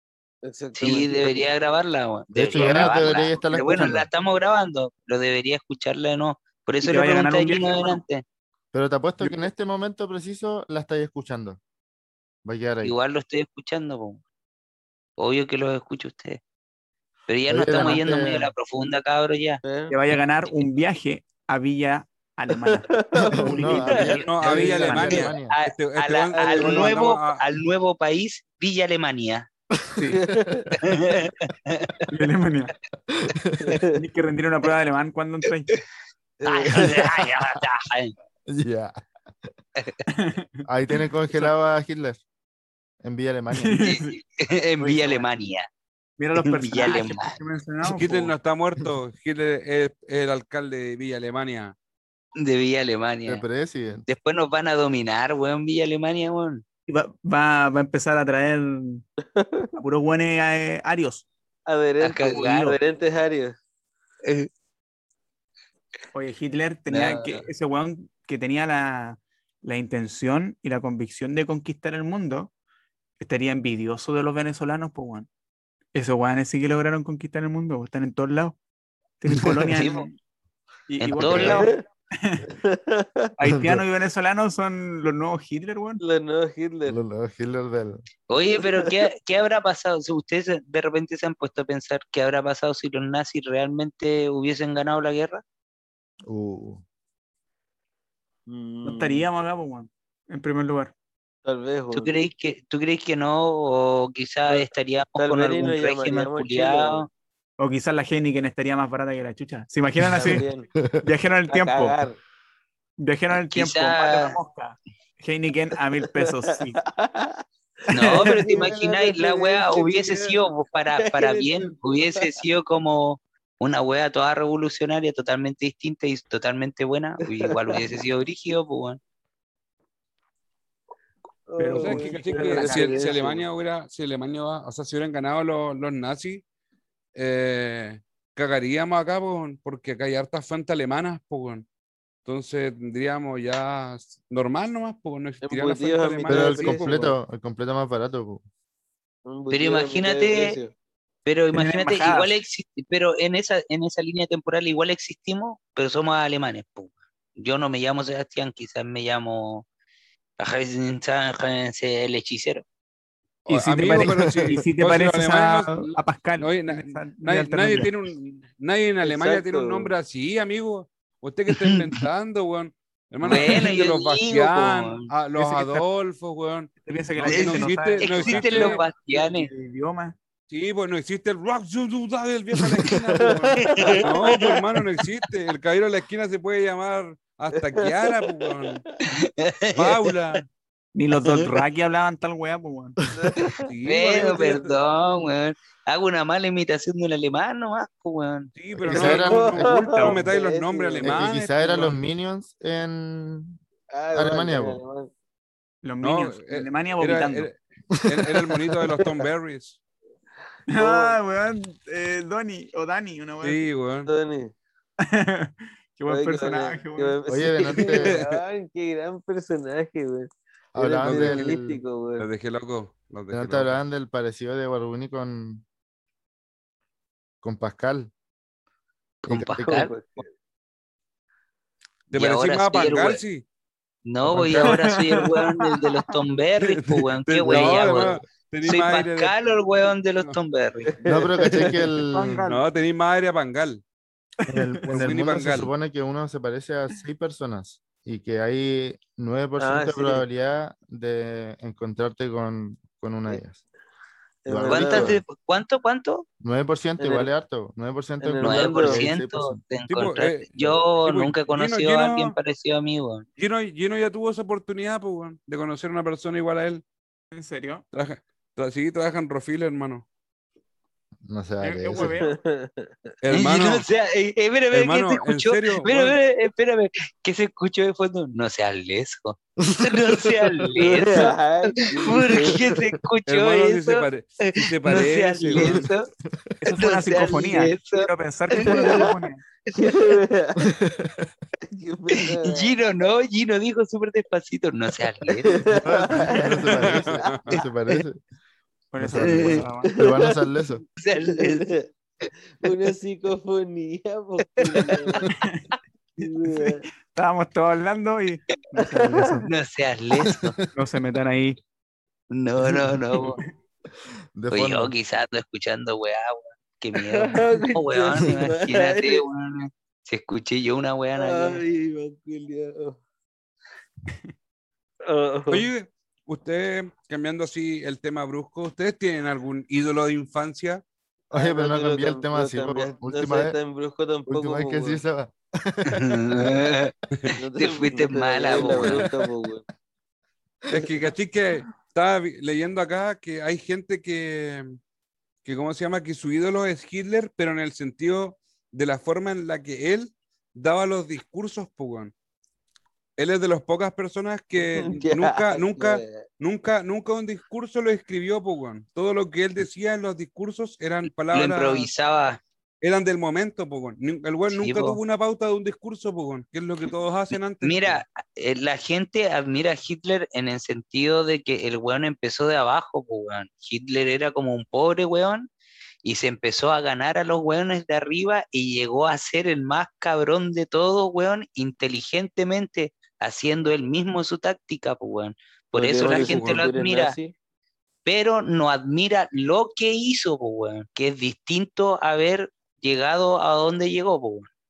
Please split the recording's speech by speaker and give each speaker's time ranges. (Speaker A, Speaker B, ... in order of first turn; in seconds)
Speaker A: 0.4-1.4, 19.6-19.9, 22.6-23.9, 26.4-26.9, 30.1-30.8, 33.6-34.0, 36.4-37.1, 59.4-59.7, 61.7-63.6, 81.3-81.8, 82.6-83.3, 86.0-87.0, 98.5-99.3, 101.5-102.1, 104.5-107.0, 110.1-110.7, 111.5-112.2, 116.2-117.4, 118.1-120.5, 121.0-122.4, 131.5-133.4, 145.4-147.2, 149.3-150.7, 169.0-169.9, 183.2-184.5, 187.8-188.8, 193.1-193.7, 198.9-201.4, 203.9-205.1, 210.7-211.2, 214.1-214.5, 216.1-222.3, 229.3-230.3, 241.0-241.9, 249.6-250.2, 254.4-255.2, 257.0-257.3, 258.2-259.1, 272.0-272.9, 280.8-282.8, 288.7-289.1, 289.8-290.6, 291.7-292.7, 295.5-297.1, 299.9-300.4, 301.2-301.9, 302.6-305.3, 306.2-306.9, 308.9-309.4, 317.0-319.2, 321.2-323.0, 325.1-325.7, 331.3-335.0, 337.4-339.6, 354.6-356.2, 385.8-387.3
Speaker B: 0.8-8.2, 12.8-14.2, 15.2-16.4, 17.3-19.6, 25.5-29.5, 30.7-32.0, 36.5-38.1, 43.8-45.7, 46.4-47.4, 52.4-53.4, 54.1-56.6, 62.0-62.8, 64.2-64.5, 66.9-67.5, 79.7-80.1, 81.0-81.7, 88.3-95.4, 101.9-107.1, 113.3-114.4, 117.9-129.0, 149.5-150.6, 151.2-159.7, 160.4-162.6, 171.5-171.8, 173.2-175.1, 177.2-179.5, 183.6-184.5, 189.1-190.1, 191.2-191.5, 193.9-198.5, 229.2-229.9, 232.1-233.2, 234.1-241.0, 254.7-256.3, 258.4-263.3, 273.3-286.1, 286.7-289.1, 289.7-290.0, 292.4-295.6, 299.1-299.6, 301.0-301.7, 304.6-305.2, 309.5-310.6, 312.3-313.4, 314.5-321.6, 335.9-336.9, 337.5-339.1, 361.3-362.4, 364.5-365.0, 367.6-375.5, 376.0-387.1, 388.1-394.5
Speaker C: 2.3-4.1, 8.7-11.6, 12.4-12.9, 17.5-18.5, 23.3-25.5, 29.8-30.7, 33.1-33.8, 38.5-39.0, 40.7-42.2, 43.0-43.9, 53.3-54.1, 81.3-81.6, 83.5-83.8, 86.9-88.0, 96.3-96.8, 110.0-111.0, 146.3-148.4, 163.8-164.6, 182.9-183.3, 198.8-199.7, 201.0-203.6, 204.1-204.8, 208.0-208.4, 217.3-218.2, 220.7-221.8, 223.3-225.6, 227.4-228.1, 234.2-234.8, 237.5-238.2, 241.1-242.4, 244.5-253.6, 254.5-255.2, 256.4-259.6, 271.2-272.1, 279.7-280.7, 285.6-286.5, 290.7-291.3, 295.7-298.2, 299.0-300.8, 314.4-314.9, 331.3-333.6, 334.3-336.5
Speaker D: 2.6-3.0, 6.8-8.0, 19.9-25.3, 30.0-30.2, 32.1-32.8, 33.9-35.8, 40.1-40.7, 43.5-44.2, 44.8-45.2, 46.2-48.3, 56.9-59.1, 59.8-61.3, 66.1-72.5, 73.2-75.3, 75.9-78.6, 79.2-80.2, 80.9-82.5, 83.4-86.0, 98.8-100.9, 107.6-110.5, 111.0-112.0, 113.0-116.8, 117.9-118.7, 131.6-133.1, 151.5-152.4, 163.5-167.9, 175.4-175.8, 176.8-180.2, 190.9-193.0, 205.8-207.5, 210.7-213.7, 215.0-217.2, 234.6-236.0, 242.1-242.6, 267.3-267.8, 271.6-272.4, 286.6-289.4, 298.9-299.9, 305.3-305.6, 307.0-309.5, 310.7-311.6
Speaker E: 24.1-27.4, 47.8-51.8, 131.7-136.4, 137.2-141.7, 142.2-147.1, 163.5-178.8, 180.5-188.9, 189.7-190.5, 193.6-194.8, 198.6-201.9, 206.0-209.8, 213.4-214.1, 217.9-218.4, 221.0-221.5, 222.2-223.8, 232.1-233.4, 236.6-239.3, 242.5-243.8, 244.9-245.7, 259.9-262.4, 263.4-266.8, 267.9-270.1, 273.2-273.9, 274.7-276.2, 283.3-285.9, 296.8-297.5, 325.5-330.8, 340.7-344.8, 345.4-352.1, 353.2-361.9, 362.8-368.0, 386.0-386.6